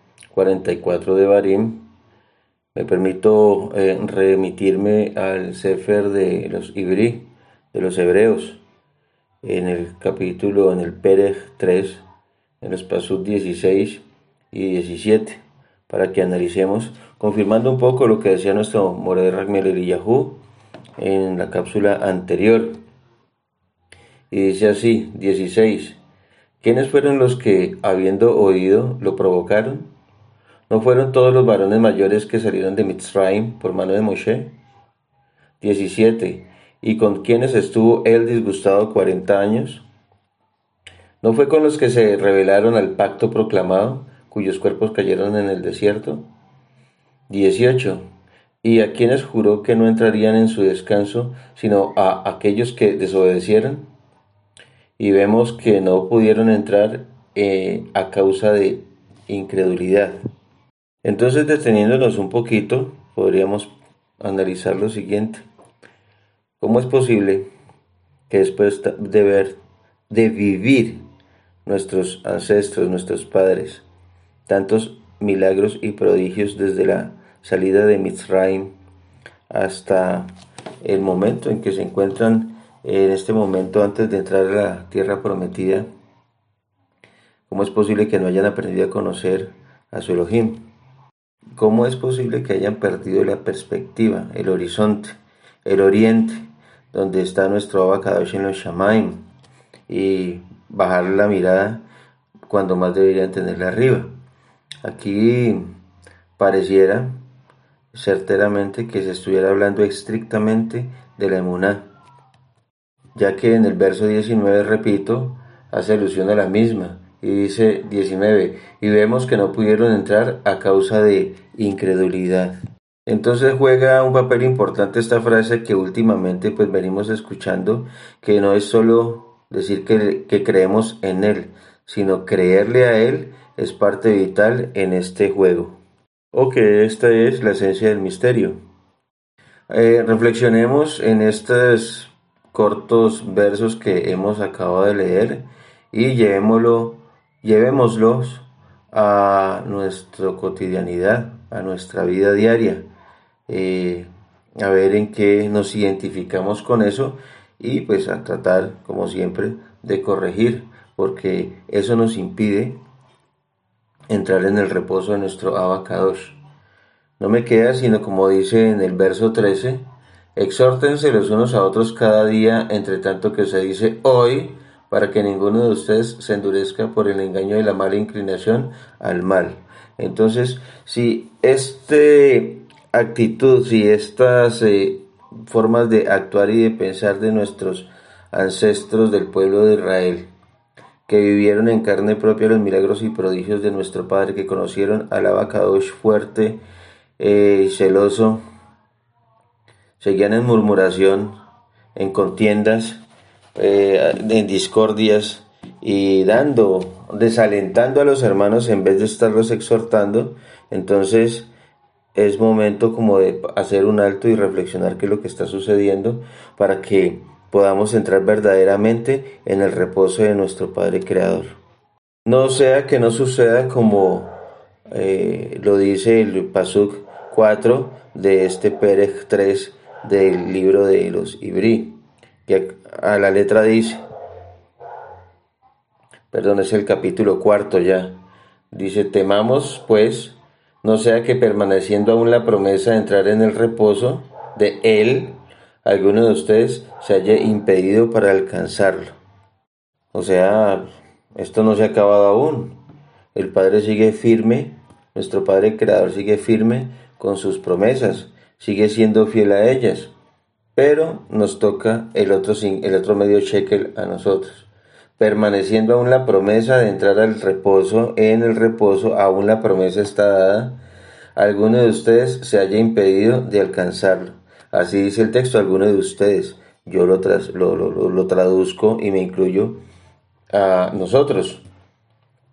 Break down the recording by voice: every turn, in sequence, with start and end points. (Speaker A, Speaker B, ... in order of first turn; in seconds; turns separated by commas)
Speaker A: 0.3-1.8, Speaker A: 2.7-8.6, Speaker A: 9.4-12.0, Speaker A: 12.6-20.4, Speaker A: 21.0-22.8, Speaker A: 24.3-26.0, Speaker A: 26.6-29.9, Speaker A: 30.7-34.5, Speaker A: 35.6-39.9, Speaker A: 41.2-46.2, Speaker A: 47.3-48.0, Speaker A: 48.6-53.9, Speaker A: 55.0-60.2, Speaker A: 61.0-65.4, Speaker A: 66.6-67.5, Speaker A: 68.3-69.6, Speaker A: 70.1-71.0, Speaker A: 71.7-73.8, Speaker A: 74.5-78.7, Speaker A: 79.5-80.3, Speaker A: 80.8-85.9, Speaker A: 87.5-90.6, Speaker A: 91.5-99.2, Speaker A: 99.9-101.8, Speaker A: 102.5-104.1, Speaker A: 104.8-105.7, Speaker A: 106.4-107.1, Speaker A: 107.9-111.8, Speaker A: 113.1-122.5, Speaker A: 123.0-135.8, Speaker A: 136.3-138.6, Speaker A: 139.7-152.8, Speaker A: 153.5-154.1, Speaker A: 154.6-162.8, Speaker A: 164.1-166.4, Speaker A: 167.2-169.8, Speaker A: 170.3-190.3, Speaker A: 191.1-196.6, Speaker A: 197.2-198.4, Speaker A: 200.0-201.3, Speaker A: 201.9-203.0, Speaker A: 203.6-211.5, Speaker A: 212.1-221.5, Speaker A: 222.2-224.3, Speaker A: 224.9-234.0, Speaker A: 236.3-238.2, Speaker A: 238.7-249.2, Speaker A: 250.1-252.8, Speaker A: 253.3-260.1, Speaker A: 260.8-270.8, Speaker A: 271.4-279.8, Speaker A: 280.5-281.6